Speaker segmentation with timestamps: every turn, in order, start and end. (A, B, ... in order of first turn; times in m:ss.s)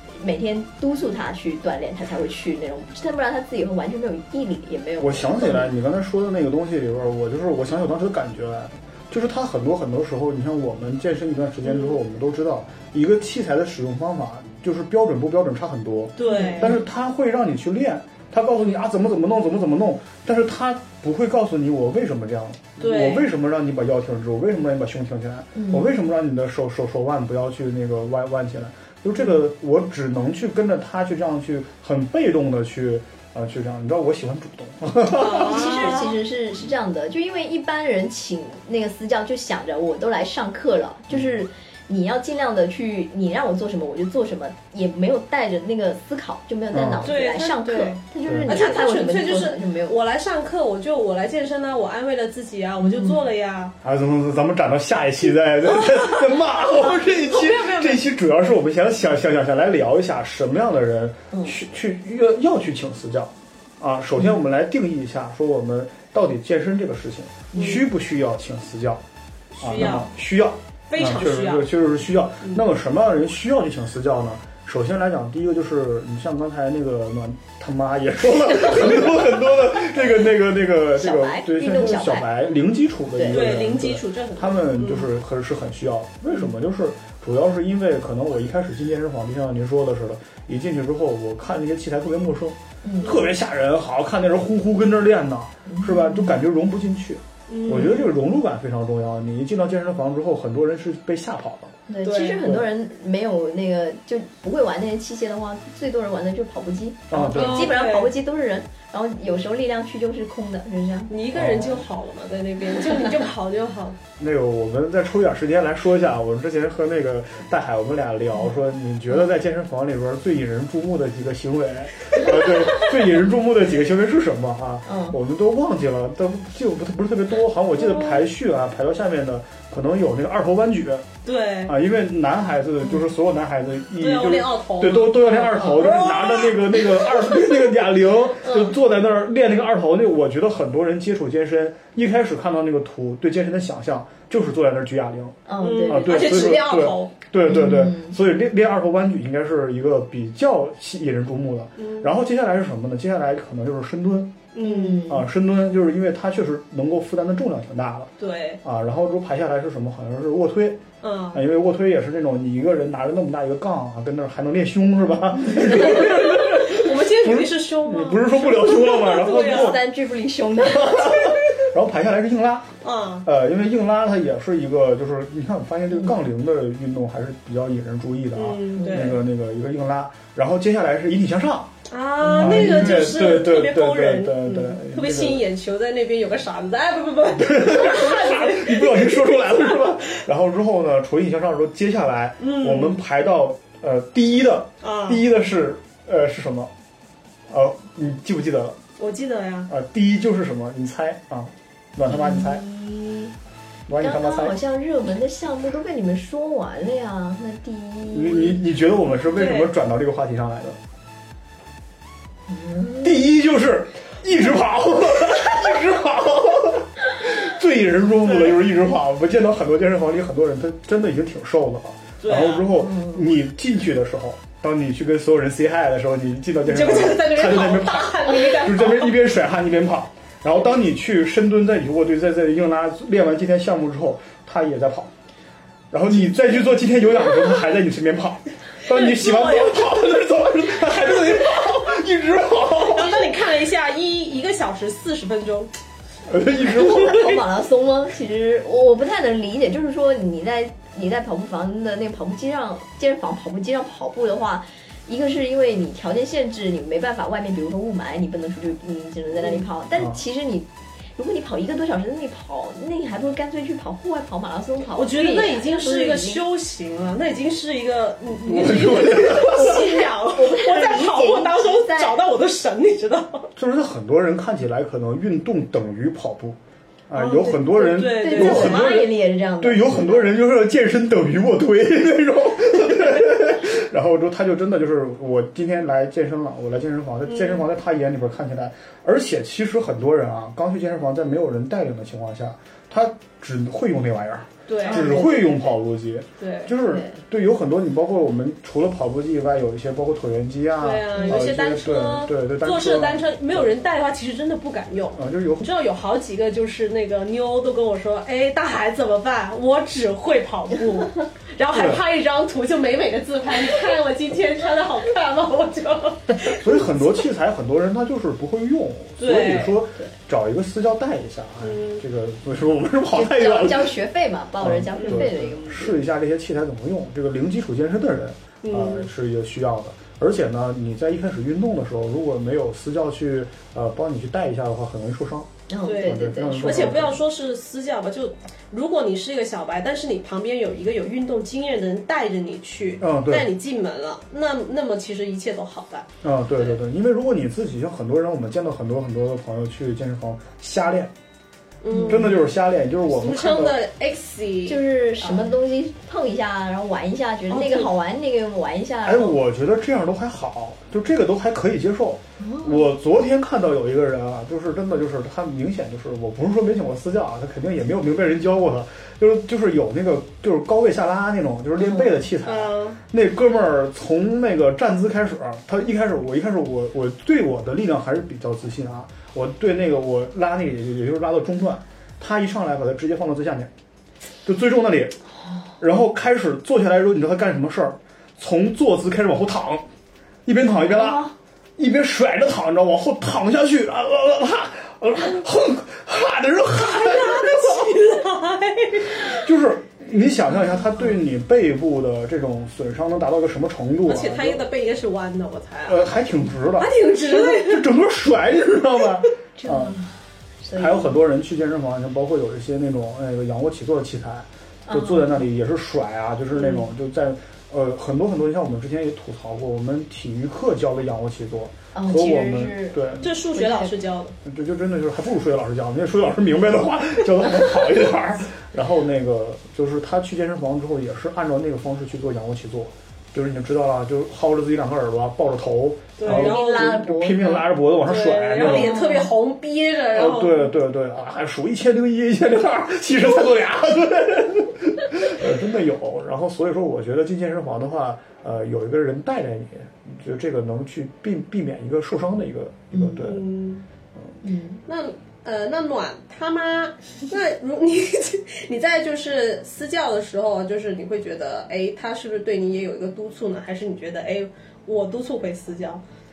0:00.2-0:05.7 A
0:05.0-0:35.8 B
0:16.2-0:16.8 C
0:16.2-0:16.8 A
0:22.8-0:23.3 C
0:25.6-0:25.9 A
0:35.1-0:36.2 C
0:35.2-0:50.0 A
0:46.7-0:47.1 B
0:47.0-0:53.8 C
0:48.3-0:48.6 B
0:52.8-0:53.2 A
0:53.8-1:09.0 B
0:55.8-0:58.0 C
1:07.5-1:07.9 C
1:09.6-1:10.1 C
1:09.6-1:41.8 B
1:10.9-1:11.7 C
1:21.0-1:22.3 A
1:23.2-1:23.4 A
1:23.3-1:25.1 C
1:32.8-1:33.2 A
1:35.7-1:36.4 A
1:37.5-1:38.1 C
1:41.9-1:51.1 A
1:42.0-1:42.5 C
1:47.1-1:47.8 B
1:47.3-1:48.1 C
1:51.1-1:54.0 C
1:51.3-1:51.9 B
1:54.2-2:11.1 B
2:04.9-2:05.2 A
2:07.8-2:08.2 C
2:11.2-2:11.8 C
2:11.7-2:34.4 B
2:14.0-2:17.6 C
2:18.4-2:18.7 A
2:25.5-2:26.3 A
2:25.6-2:27.1 C
2:27.5-2:28.2 A
2:31.8-2:32.1 C
2:34.5-2:35.1 C
2:34.6-2:35.2 A
2:35.1-2:38.1 B
2:38.2-2:38.6 C
2:38.6-2:40.8 B
2:41.0-2:41.4 C
2:41.3-2:49.8 B
2:45.7-2:49.8 C
2:48.9-2:51.4 A
2:50.6-2:52.7 B
2:52.8-2:53.3 C
2:53.2-3:01.7 B
2:58.3-2:59.2 C
2:58.8-2:59.2 A
3:01.9-3:09.7 C
3:02.2-3:03.0 A
3:02.3-3:05.4 B
3:07.4-3:16.7 B
3:12.4-3:13.0 C
3:14.8-3:15.2 C
3:17.5-3:18.8 B
3:19.0-3:19.7 C
3:19.7-3:22.6 B
3:22.1-3:23.4 A
3:23.9-3:24.6 B
3:24.0-3:28.6 A
3:28.1-3:30.8 B
3:29.3-3:29.7 C
3:32.5-3:33.3 A
3:33.0-3:55.1 B
3:38.3-3:38.6 C
3:42.2-3:42.7 C
3:42.8-3:43.2 A
3:46.7-3:49.2 C
3:55.9-4:03.3 B
3:58.9-3:59.9 C
4:02.8-4:05.7 C
4:06.3-4:07.3 B
4:06.5-4:26.4 A
4:25.0-4:33.5 C
4:28.4-4:29.8 B
4:29.3-4:32.2 A
4:33.6-4:36.6 B
4:37.1-4:39.1 B
4:37.2-4:40.3 A
4:37.2-4:39.1 C
4:39.6-5:03.7 B
4:47.3-4:47.6 C
4:54.7-4:55.6 C
4:54.9-4:55.4 A
4:56.4-4:56.8 C
5:00.8-5:16.9 C
5:01.2-5:01.4 A
5:05.2-5:05.7 B
5:11.7-5:12.0 B
5:16.4-5:24.0 B
5:19.2-5:19.8 C
5:21.6-5:22.0 C
5:23.1-5:26.0 A
5:24.6-5:35.5 B
5:25.0-5:25.3 C
5:28.6-5:29.1 C
5:35.7-5:37.0 A
5:35.8-5:46.1 C
5:36.0-5:37.2 B
5:43.0-5:43.5 B
5:46.2-5:51.1 B
5:51.8-5:52.4 C
5:51.9-5:52.3 A
5:52.1-5:53.8 B
5:53.1-5:55.5 C
5:54.7-5:59.4 A
5:57.5-5:57.9 C
5:59.0-6:23.7 B
6:02.4-6:02.9 A
6:11.8-6:12.1 A
6:12.4-6:13.0 C
6:24.4-6:25.2 B
6:25.8-6:29.8 B
6:30.4-6:37.9 B
6:30.8-6:31.3 A
6:36.8-6:39.5 C
6:39.3-6:44.6 B
6:44.1-6:46.0 C
6:45.9-6:50.0 B
6:46.8-6:47.9 C
6:49.6-6:51.2 A
6:50.7-7:03.3 B
6:54.9-6:55.4 A
6:56.6-6:56.8 A
7:01.9-7:03.0 A
7:03.2-7:04.4 C
7:03.5-7:03.9 A
7:04.4-7:19.0 B
7:16.2-7:17.0 C
7:16.2-7:17.7 A
7:18.0-7:20.8 C
7:18.6-7:19.3 A
7:20.1-7:33.5 B
7:32.9-7:33.2 A
7:33.2-7:33.8 C
7:34.4-7:34.8 A
7:34.9-7:46.0 C